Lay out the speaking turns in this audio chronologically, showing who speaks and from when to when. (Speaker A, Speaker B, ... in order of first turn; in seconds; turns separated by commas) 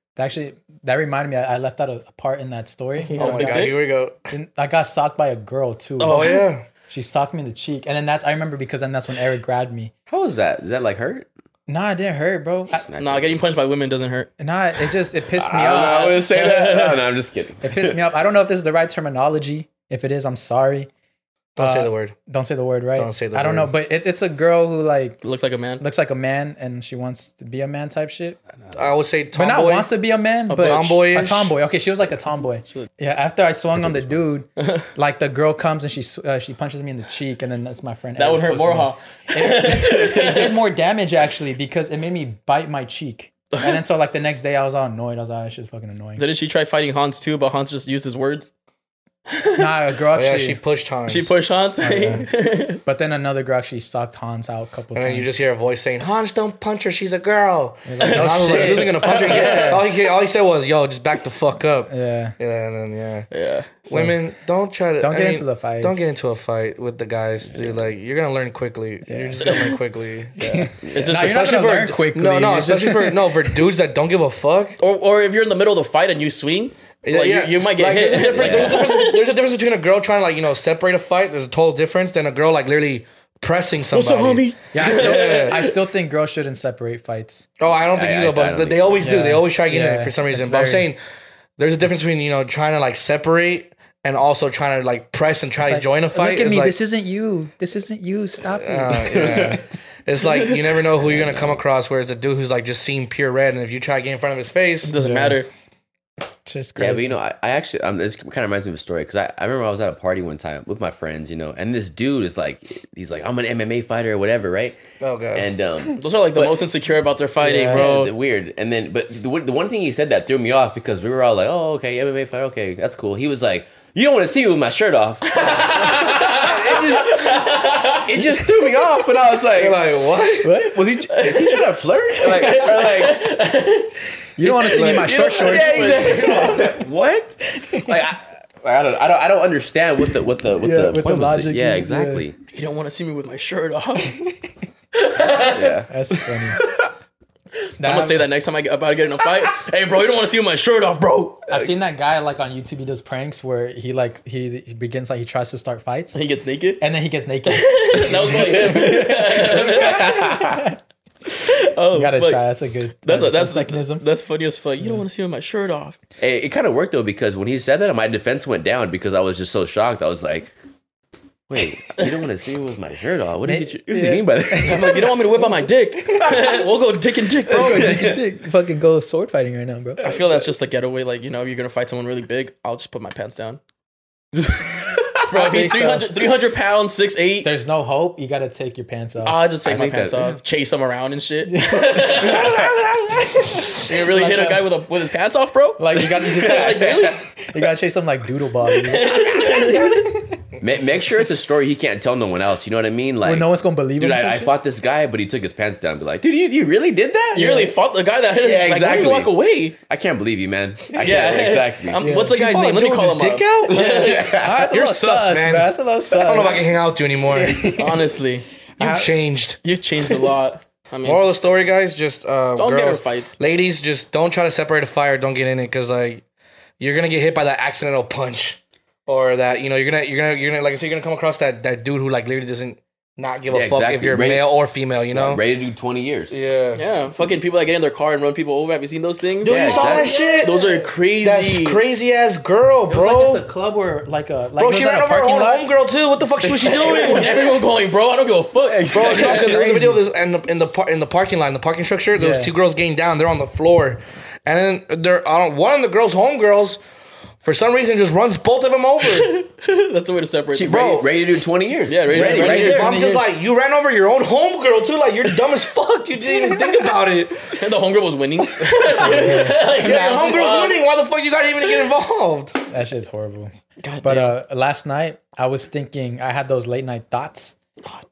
Speaker A: 0.2-3.7, Speaker B: 3.0-3.8, Speaker C: 3.2-4.2, Speaker A: 4.3-6.3, Speaker B: 6.0-6.5, Speaker C: 6.0-6.7, Speaker A: 6.9-9.9, Speaker D: 10.1-11.3, Speaker A: 11.7-12.9, Speaker D: 12.7-13.4, Speaker B: 13.0-14.3, Speaker A: 14.4-16.2, Speaker D: 15.3-18.0, Speaker B: 15.6-17.1, Speaker A: 17.6-20.9, Speaker C: 21.6-22.1, Speaker A: 21.6-25.2, Speaker C: 23.0-23.7, Speaker B: 25.2-25.8, Speaker A: 25.8-28.4, Speaker C: 28.7-29.9, Speaker A: 29.4-46.2, Speaker B: 30.5-31.0, Speaker C: 30.6-31.6, Speaker B: 34.6-34.9, Speaker B: 38.2-40.6, Speaker B: 46.2-48.5, Speaker B: 49.3-49.6, Speaker A: 49.6-50.6, Speaker C: 50.2-51.3, Speaker B: 51.1-52.8, Speaker A: 51.8-52.3, Speaker A: 52.9-55.4, Speaker C: 55.0-63.3, Speaker A: 57.9-59.9, Speaker B: 58.0-60.0, Speaker A: 61.9-62.4, Speaker B: 63.3-64.1, Speaker C: 63.9-74.8, Speaker A: 65.0-66.1, Speaker D: 67.5-67.9, Speaker A: 69.1-69.4, Speaker B: 69.5-69.7, Speaker A: 70.4-73.5, Speaker D: 70.8-71.1, Speaker B: 70.9-72.0, Speaker B: 74.8-79.4, Speaker C: 77.0-85.6, Speaker D: 78.3-78.9, Speaker B: 83.9-85.8, Speaker A: 84.7-87.5, Speaker C: 87.6-91.0, Speaker D: 87.9-89.2, Speaker A: 89.0-90.9, Speaker C: 91.6-96.8, Speaker A: 95.6-99.6, Speaker C: 98.5-104.9, Speaker D: 99.2-99.5, Speaker D: 101.0-101.6, Speaker B: 104.9-105.5, Speaker A: 104.9-105.4, Speaker A: 106.5-107.2, Speaker D: 106.8-114.8, Speaker C: 115.0-115.5, Speaker D: 115.3-116.6, Speaker B: 116.0-118.1, Speaker A: 117.4-117.9, Speaker D: 117.7-133.3, Speaker B: 125.3-128.2, Speaker C: 126.4-126.8, Speaker C: 129.5-130.7, Speaker A: 130.4-130.8, Speaker B: 131.1-136.7, Speaker A: 134.4-136.1, Speaker D: 135.1-142.4, Speaker A: 137.6-137.9, Speaker A: 140.6-142.2, Speaker B: 142.5-144.3, Speaker B: 145.0-145.7, Speaker D: 145.5-145.9, Speaker A: 145.9-146.6, Speaker A: 147.8-148.2, Speaker B: 147.8-151.5, Speaker A: 151.5-156.2, Speaker B: 156.2-156.8, Speaker A: 156.8-160.8, Speaker B: 157.5-160.4, Speaker D: 159.8-160.1, Speaker B: 161.4-162.4, Speaker A: 161.9-164.1, Speaker B: 163.0-166.0, Speaker D: 166.2-170.5, Speaker D: 171.5-175.2, Speaker A: 173.4-174.9, Speaker B: 174.6-178.1, Speaker A: 177.5-180.2, Speaker D: 177.5-178.2, Speaker B: 180.0-183.6, Speaker B: 185.3-187.5, Speaker A: 185.3-186.1, Speaker A: 187.4-189.4, Speaker B: 189.2-192.7, Speaker D: 189.6-190.4, Speaker A: 191.5-194.7, Speaker D: 192.3-192.7, Speaker B: 193.7-197.3, Speaker A: 195.8-200.4, Speaker D: 196.2-197.2, Speaker B: 198.7-200.2, Speaker D: 200.6-207.7, Speaker A: 203.2-204.5, Speaker B: 207.3-209.8, Speaker D: 208.4-212.0, Speaker B: 211.0-214.3, Speaker A: 212.0-212.4, Speaker C: 212.3-217.8, Speaker D: 213.7-214.7, Speaker A: 214.3-216.8, Speaker A: 217.3-218.0, Speaker B: 217.7-218.5, Speaker A: 218.8-219.1, Speaker C: 218.8-219.6, Speaker B: 219.6-221.2, Speaker C: 221.0-226.2, Speaker B: 222.6-223.4, Speaker C: 226.8-235.4, Speaker D: 233.5-234.5, Speaker D: 235.1-236.3, Speaker C: 236.3-236.8, Speaker B: 236.8-241.8, Speaker D: 239.4-240.3, Speaker C: 239.4-243.4, Speaker A: 240.2-240.4, Speaker A: 242.9-245.7, Speaker C: 244.6-247.6, Speaker B: 246.4-249.6, Speaker D: 248.7-249.5, Speaker C: 248.9-256.8, Speaker A: 249.3-250.0, Speaker A: 252.2-252.5, Speaker C: 257.4-259.4, Speaker B: 259.0-260.9, Speaker D: 260.5-262.9, Speaker C: 260.7-261.1, Speaker B: 261.9-262.9, Speaker A: 262.1-263.4, Speaker C: 262.2-267.5, Speaker B: 266.3-267.0, Speaker B: 267.5-270.8, Speaker C: 268.6-272.6, Speaker A: 269.0-269.8, Speaker B: 271.6-271.9, Speaker A: 272.7-273.5, Speaker B: 273.8-274.4, Speaker A: 274.0-277.6